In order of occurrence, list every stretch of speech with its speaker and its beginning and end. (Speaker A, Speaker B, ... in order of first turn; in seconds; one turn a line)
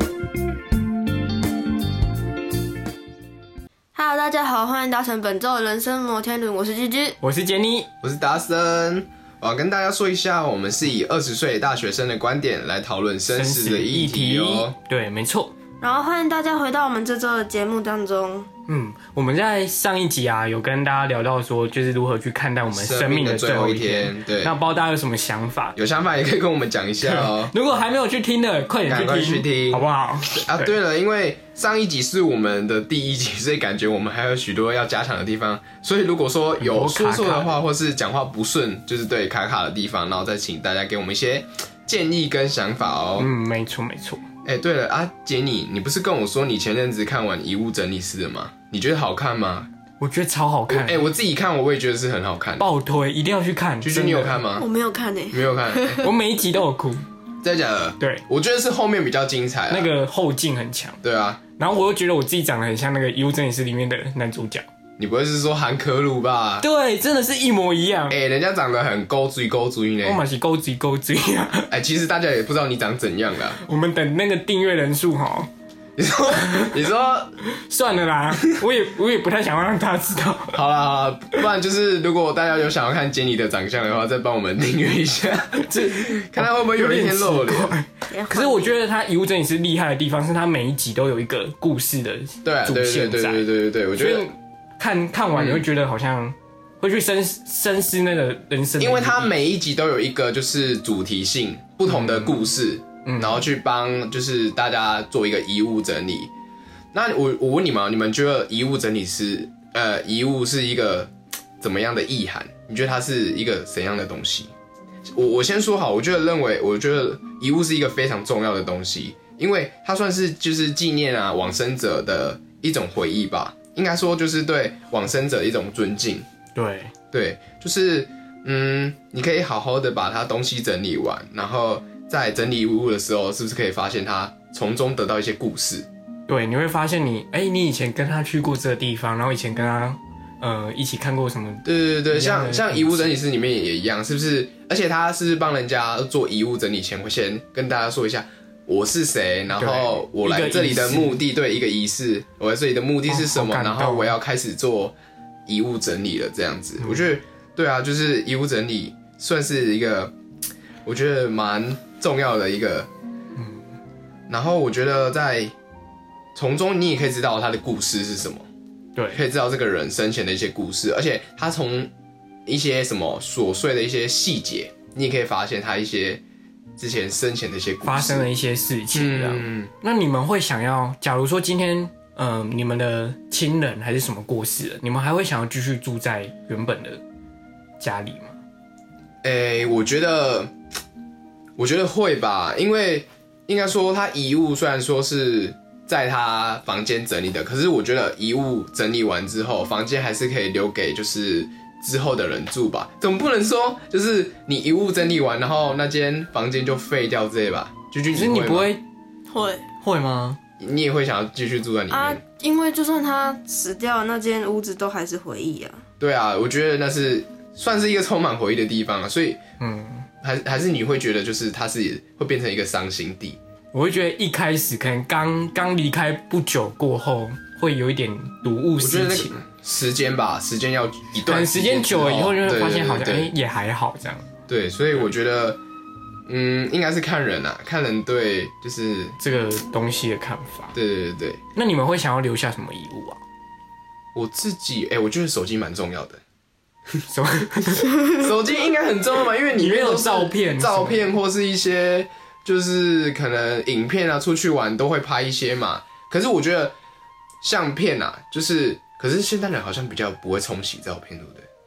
Speaker A: 3.9-7.2
Speaker B: 7.2-7.9
Speaker C: 8.0-14.8
Speaker B: 13.3-15.5
Speaker A: 15.8-18.5
Speaker B: 18.7-25.8
Speaker C: 22.7-24.5
Speaker C: 25.8-27.5
Speaker B: 27.0-30.7
Speaker C: 28.9-43.3
Speaker B: 36.6-37.6
Speaker B: 43.2-44.2
Speaker C: 44.4-49.7
Speaker B: 50.0-51.0
Speaker C: 50.7-52.7
Speaker B: 52.6-54.4
Speaker C: 53.8-54.7
Speaker A: 54.5-56.1
Speaker C: 55.3-56.0
Speaker B: 56.0-57.0
Speaker C: 57.4-59.9
Speaker B: 58.0-58.2
Speaker B: 59.7-61.0
Speaker C: 61.0-61.4
Speaker B: 61.5-64.6
Speaker C: 65.0-66.7
Speaker B: 66.6-68.2
Speaker C: 68.1-70.2
Speaker B: 70.0-71.7
Speaker C: 71.7-73.6
Speaker B: 73.6-75.5
Speaker C: 76.0-77.4
Speaker B: 76.4-76.7
Speaker B: 77.5-80.6
Speaker C: 80.5-87.8
Speaker B: 85.6-99.3
Speaker A: 88.1-88.7
Speaker C: 92.4-94.3
Speaker C: 95.3-95.7
Speaker C: 98.8-106.3
Speaker B: 101.8-102.5
Speaker B: 103.0-103.5
Speaker C: 106.9-114.5
Speaker C: 115.1-126.2
Speaker B: 126.5-126.9
Speaker C: 127.1-135.9
Speaker B: 136.3-143.1
Speaker C: 141.6-154.9
Speaker B: 149.5-151.2
Speaker B: 153.1-154.2
Speaker C: 155.4-160.1
Speaker B: 156.8-157.1
Speaker C: 160.8-162.9
Speaker B: 163.4-163.6
Speaker C: 164.3-165.5
Speaker C: 166.3-168.5
Speaker B: 168.9-169.2
Speaker C: 169.1-171.9
Speaker C: 172.4-176.2
Speaker C: 176.8-178.3
Speaker B: 177.8-187.0
Speaker C: 178.9-179.7
Speaker B: 187.8-188.4
Speaker C: 189.2-190.5
Speaker C: 191.6-208.7
Speaker B: 208.1-208.8
Speaker A: 209.3-209.7
Speaker B: 209.8-210.4
Speaker C: 210.6-212.2
Speaker A: 211.9-215.8
Speaker C: 216.0-219.4
Speaker B: 219.6-220.1
Speaker C: 220.2-223.4
Speaker B: 223.7-229.4
Speaker C: 228.8-233.3
Speaker B: 231.2-234.3
Speaker C: 234.5-235.6
Speaker C: 236.3-239.2
Speaker B: 239.2-240.7
Speaker C: 240.7-241.4
Speaker B: 241.5-243.2
Speaker C: 244.1-246.2
Speaker B: 247.1-248.1
Speaker C: 248.0-256.7
Speaker B: 249.5-251.1
Speaker C: 257.4-261.5